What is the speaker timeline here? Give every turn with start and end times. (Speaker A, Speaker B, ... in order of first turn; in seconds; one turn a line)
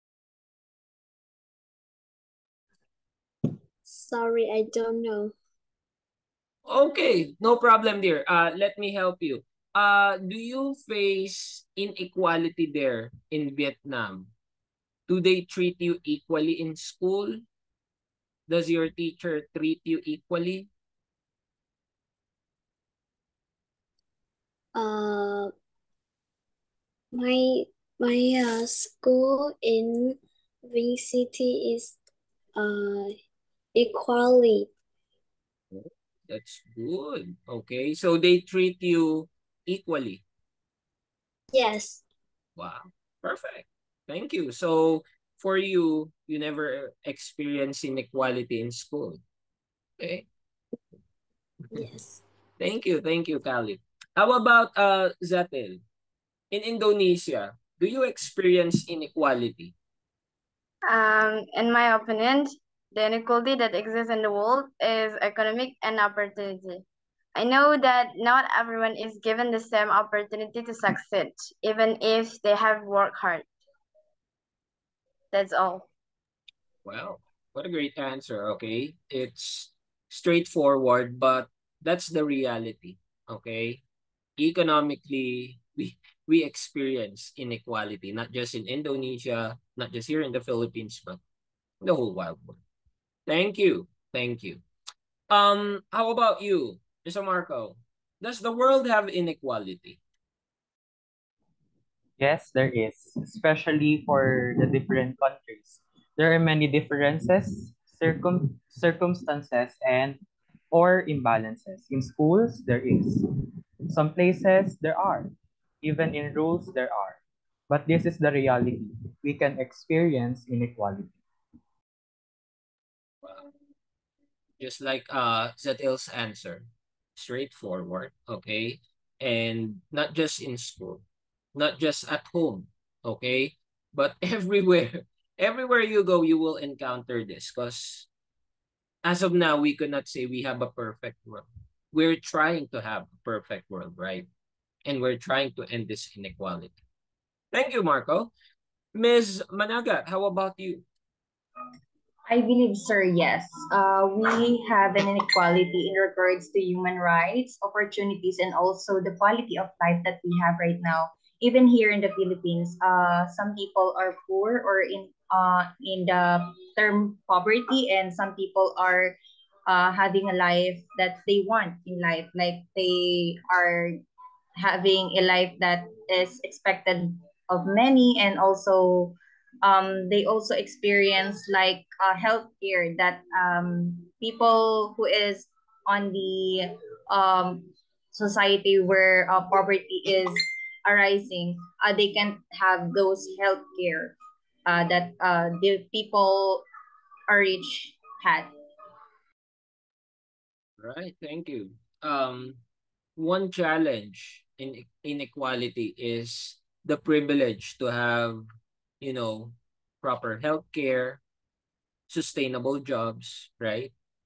Speaker A: 3.9-5.3
Speaker B: 6.7-14.3
Speaker B: 15.1-17.4
Speaker B: 18.5-20.7
Speaker A: 24.7-25.5
Speaker A: 27.1-32.0
Speaker A: 32.5-33.1
Speaker A: 33.7-34.7
Speaker B: 35.7-40.2
Speaker A: 41.5-42.0
Speaker B: 42.6-49.2
Speaker B: 50.0-50.2
Speaker A: 51.7-52.2
Speaker B: 52.6-55.8
Speaker B: 56.5-59.7
Speaker C: 60.9-66.8
Speaker C: 67.3-73.5
Speaker C: 75.3-75.9
Speaker B: 76.8-83.8
Speaker B: 84.4-91.2
Speaker B: 91.8-92.6
Speaker B: 93.3-94.6
Speaker B: 95.3-100.0
Speaker D: 102.2-110.2
Speaker D: 110.7-113.2
Speaker D: 113.9-115.3
Speaker D: 115.8-121.1
Speaker B: 124.6-131.0
Speaker B: 131.5-138.1
Speaker B: 139.0-144.3
Speaker B: 144.8-146.8
Speaker B: 147.5-148.3
Speaker B: 148.9-150.8
Speaker E: 152.3-174.0
Speaker E: 174.6-196.6
Speaker E: 197.3-198.5
Speaker B: 200.8-202.6
Speaker B: 203.2-208.4
Speaker B: 209.0-211.2
Speaker B: 212.1-213.9